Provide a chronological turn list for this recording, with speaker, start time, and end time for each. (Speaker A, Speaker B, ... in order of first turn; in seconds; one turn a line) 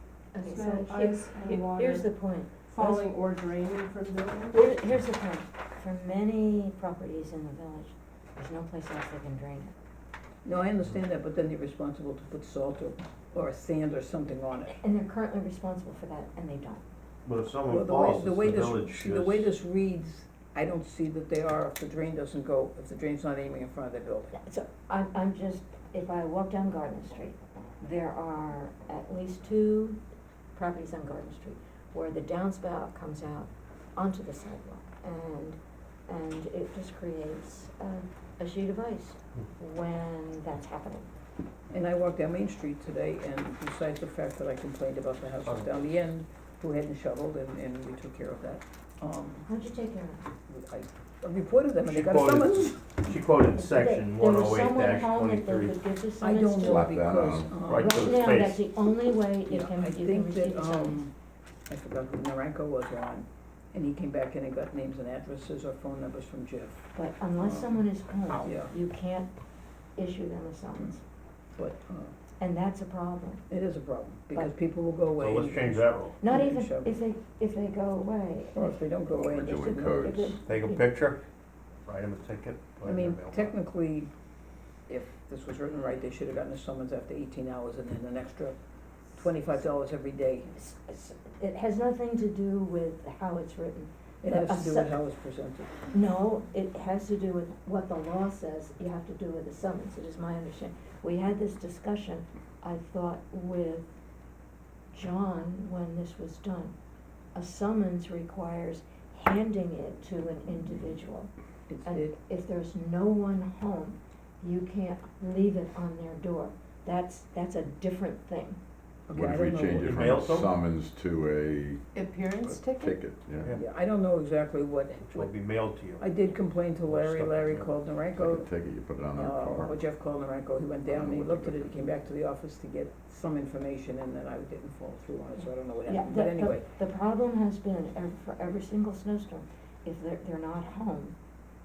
Speaker A: 0.3-3.0
Speaker B: 0.4-2.1
Speaker B: 2.7-4.6
Speaker A: 4.5-9.7
Speaker C: 10.4-14.8
Speaker A: 14.7-16.8
Speaker D: 17.2-19.5
Speaker C: 17.6-24.3
Speaker A: 24.3-30.0
Speaker A: 30.6-41.1
Speaker C: 41.7-49.5
Speaker D: 45.5-45.8
Speaker A: 49.5-50.2
Speaker C: 50.5-52.8
Speaker D: 51.9-55.9
Speaker A: 53.5-56.9
Speaker C: 56.2-58.4
Speaker E: 56.6-57.5
Speaker D: 57.6-58.7
Speaker A: 57.8-61.0
Speaker C: 59.5-61.1
Speaker C: 61.7-68.7
Speaker A: 67.0-69.3
Speaker A: 70.0-71.0
Speaker C: 71.6-72.1
Speaker A: 72.4-73.5
Speaker C: 73.5-76.9
Speaker D: 75.2-76.2
Speaker A: 76.2-78.8
Speaker C: 78.5-80.4
Speaker E: 79.1-80.3
Speaker A: 80.0-81.0
Speaker D: 80.5-81.2
Speaker D: 81.9-83.5
Speaker C: 82.8-84.1
Speaker C: 84.9-88.6
Speaker C: 89.1-90.5
Speaker A: 90.5-95.0
Speaker C: 94.2-95.8
Speaker A: 95.9-103.9
Speaker A: 104.9-106.8
Speaker A: 107.3-111.3
Speaker C: 111.7-112.2
Speaker A: 111.8-118.6
Speaker C: 119.1-120.1
Speaker E: 119.1-121.8
Speaker D: 119.8-120.5
Speaker B: 121.9-123.0
Speaker E: 122.4-123.6
Speaker C: 123.5-125.3
Speaker D: 125.0-126.3
Speaker C: 126.0-128.5
Speaker D: 126.9-127.7
Speaker E: 128.2-129.8
Speaker C: 129.1-136.7
Speaker E: 130.9-131.7
Speaker A: 135.9-141.2